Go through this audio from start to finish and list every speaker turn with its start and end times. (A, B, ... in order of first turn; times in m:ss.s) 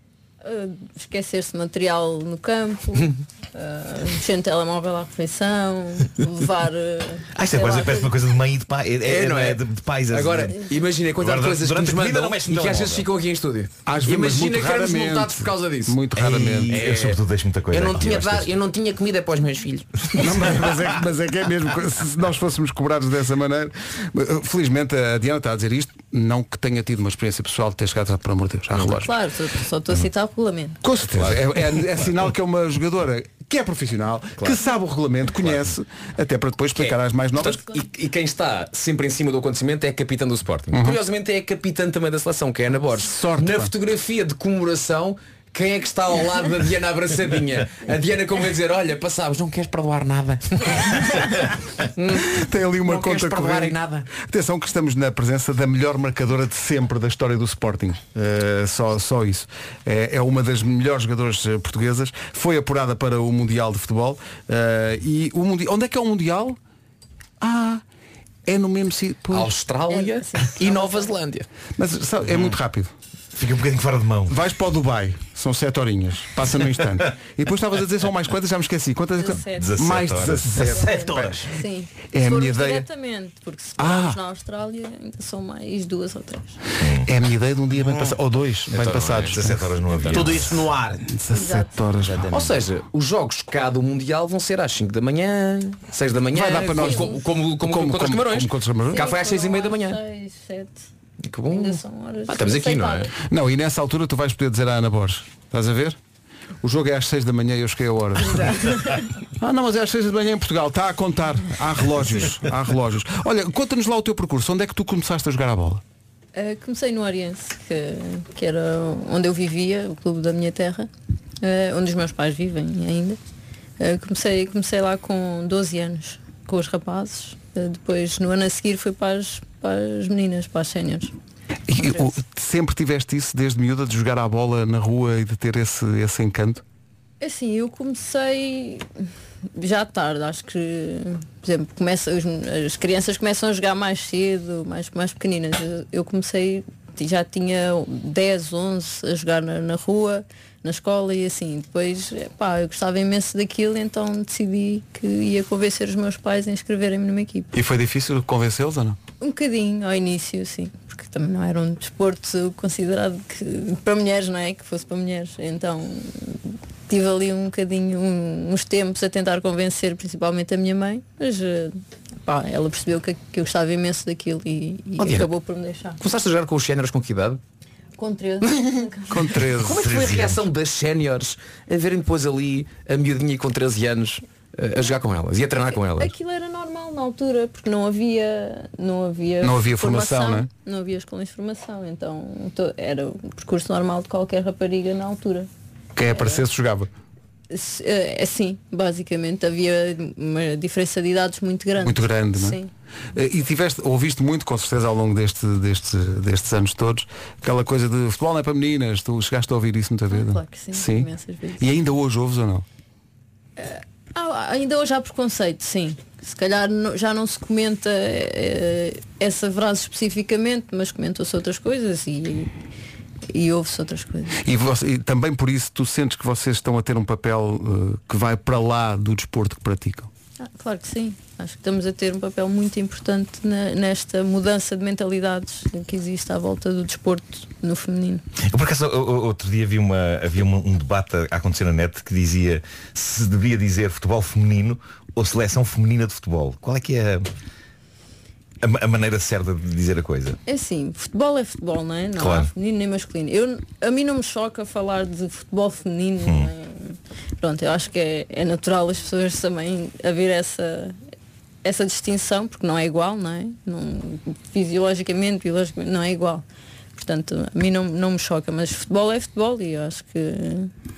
0:00.4-0:08.1 A
0:07.3-0:10.6 B
0:09.0-0:16.0 C
0:11.2-0:13.1 B
0:13.9-0:16.8 D
0:16.2-0:16.7 E
0:16.7-0:18.5 B
0:16.7-0:20.3 C
0:20.2-0:29.1 D
0:28.7-0:29.1 C
0:29.0-0:30.8 A
0:30.8-0:37.6 D
0:31.1-0:31.4 C
0:36.7-0:54.1 C
0:40.7-0:41.0 D
0:43.0-0:43.7 D
0:52.2-1:06.6 D
1:07.4-1:07.8 D
1:08.4-1:09.5 D
1:09.3-1:11.5 C
1:09.9-1:11.1 A
1:11.8-1:12.9 D
1:13.3-1:14.4 B
1:14.3-1:21.4 D
1:19.2-1:19.7 A
1:19.4-1:20.7 B
1:20.6-1:21.5 E
1:20.7-1:26.6 A
1:22.1-1:22.8 D
1:23.8-1:24.2 D
1:26.8-1:27.1 B
1:27.0-1:29.7 D
1:27.8-1:28.2 E
1:28.7-1:29.4 C
1:29.3-1:30.7 B
1:29.9-1:30.3 C
1:30.1-1:31.2 E
1:31.1-1:32.4 D
1:31.3-1:31.7 A
1:32.0-1:32.5 E
1:32.3-1:40.0 C
1:36.3-1:39.0 D
1:36.7-1:37.2 A
1:38.9-1:40.8 A
1:41.3-1:43.1 C
1:41.5-1:43.1 A
1:43.2-1:46.0 D
1:46.6-1:48.7 D
1:48.3-1:49.0 A
1:49.4-1:55.8 D
1:56.3-2:00.9 A
2:01.4-2:03.2 A
2:03.8-2:11.1 A
2:11.7-2:16.6 D
2:11.8-2:12.1 A
2:17.2-2:18.8 A
2:19.6-2:37.5 A
2:37.5-2:39.0 D
2:39.2-2:56.0 A
2:55.0-2:55.3 C
2:56.0-2:57.4 C
2:58.0-2:59.4 A
2:59.1-2:59.8 D
2:59.6-3:06.1 C
2:59.8-3:00.4 B
3:05.7-3:15.5 A
3:09.4-3:10.5 D
3:16.0-3:16.9 D
3:16.1-3:16.4 A
3:17.5-3:22.7 A
3:21.8-3:22.6 D
3:23.1-3:32.6 D
3:30.1-3:31.6 A
3:33.6-3:42.5 A
3:43.3-3:44.4 A
3:44.4-3:50.1 D
3:50.4-3:58.2 A
3:58.4-4:07.3 B
4:08.6-4:10.4 B
4:10.4-4:21.0 A
4:12.2-4:12.5 B
4:16.2-4:16.5 B
4:21.6-4:26.4 A
4:26.9-4:30.7 A